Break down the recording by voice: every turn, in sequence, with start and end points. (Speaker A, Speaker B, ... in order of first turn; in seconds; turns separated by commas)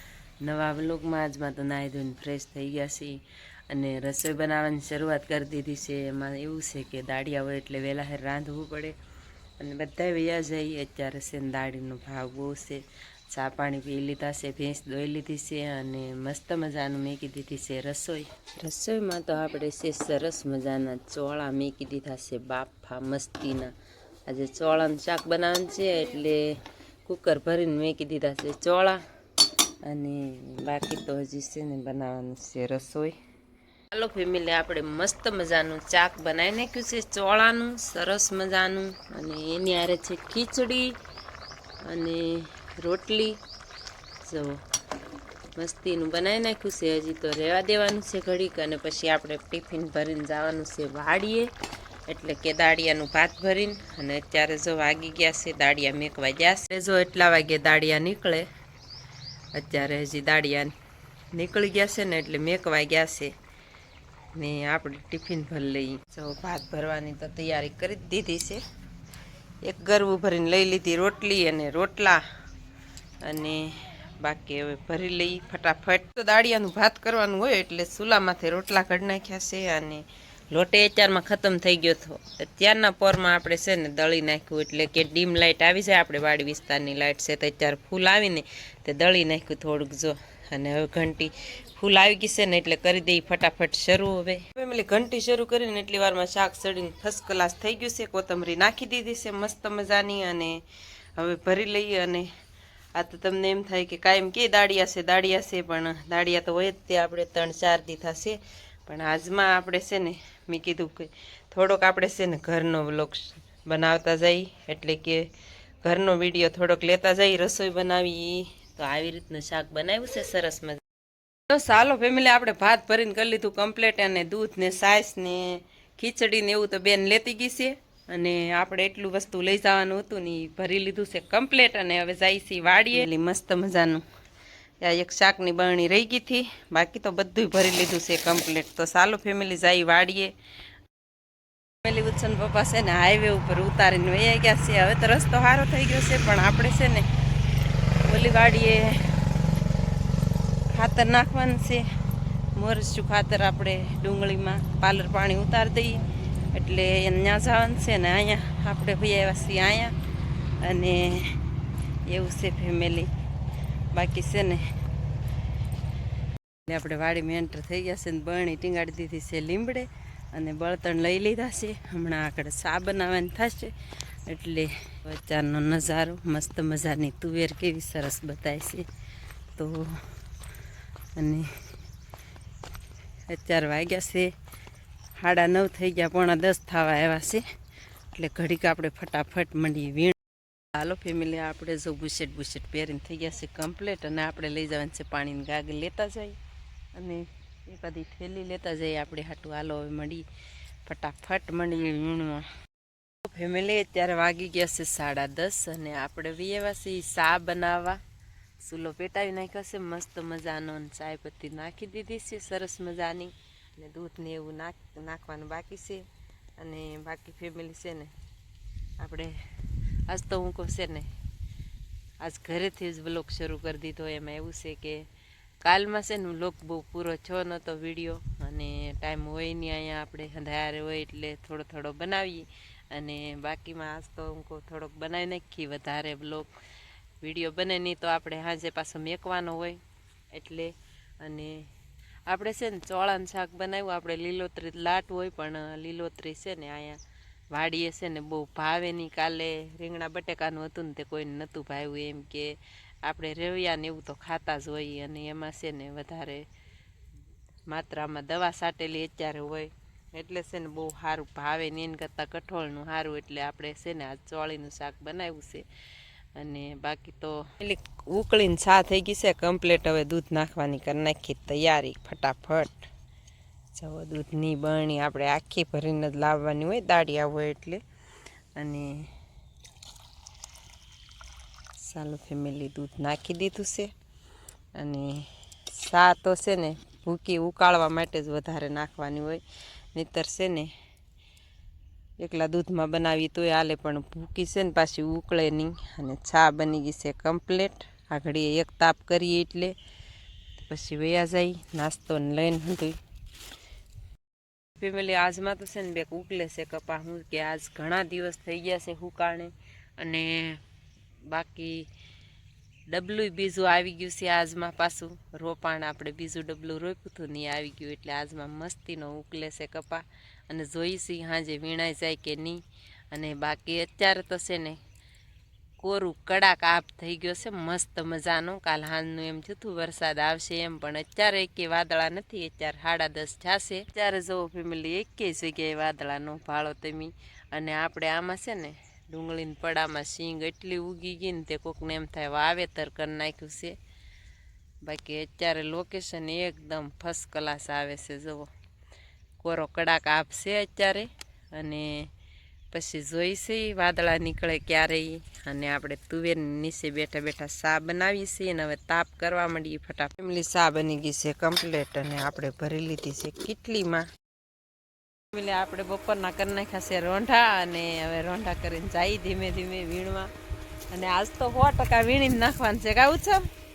Speaker A: 0.4-9.0, Speaker A: 9.6-23.7, Speaker A: 24.3-29.0, Speaker A: 29.9-33.2, Speaker A: 33.9-41.0, Speaker A: 41.8-43.4, Speaker A: 44.2-44.6, Speaker A: 45.6-51.5, Speaker A: 52.1-58.5, Speaker A: 59.5-60.8, Speaker A: 61.3-63.3, Speaker A: 64.3-68.6, Speaker A: 69.6-72.2, Speaker A: 73.2-100.6, Speaker A: 101.2-102.3, Speaker A: 103.0-115.3, Speaker A: 115.8-120.8, Speaker A: 121.5-134.0, Speaker A: 134.8-140.3, Speaker A: 141.8-147.1, Speaker A: 148.1-149.2, Speaker A: 150.7-151.8, Speaker A: 152.6-159.9, Speaker A: 160.6-161.4, Speaker A: 162.1-163.1, Speaker A: 163.9-164.7, Speaker A: 166.7-173.7, Speaker A: 174.3-178.9, Speaker A: 179.6-180.1, Speaker A: 181.2-181.5, Speaker A: 183.3-184.3, Speaker A: 185.2-187.4, Speaker A: 188.1-190.2, Speaker A: 190.7-196.4, Speaker A: 196.9-200.3, Speaker A: 200.9-202.5, Speaker A: 203.2-208.0, Speaker A: 208.6-216.1, Speaker A: 216.6-218.1, Speaker A: 219.0-221.1, Speaker A: 222.2-225.0, Speaker A: 225.6-236.5, Speaker A: 237.2-239.8, Speaker A: 240.3-241.7, Speaker A: 242.3-247.0, Speaker A: 247.5-256.5, Speaker A: 257.7-265.7, Speaker A: 266.4-272.9, Speaker A: 273.7-277.8, Speaker A: 278.6-279.1, Speaker A: 281.8-283.9, Speaker A: 284.8-289.4, Speaker A: 289.9-290.7, Speaker A: 292.2-299.7, Speaker A: 300.6-303.0, Speaker A: 304.8-310.6, Speaker A: 311.3-311.9, Speaker A: 312.9-324.8, Speaker A: 325.8-343.8, Speaker A: 344.9-348.5, Speaker A: 349.4-352.1, Speaker A: 352.7-364.1, Speaker A: 365.3-370.3, Speaker A: 370.9-373.5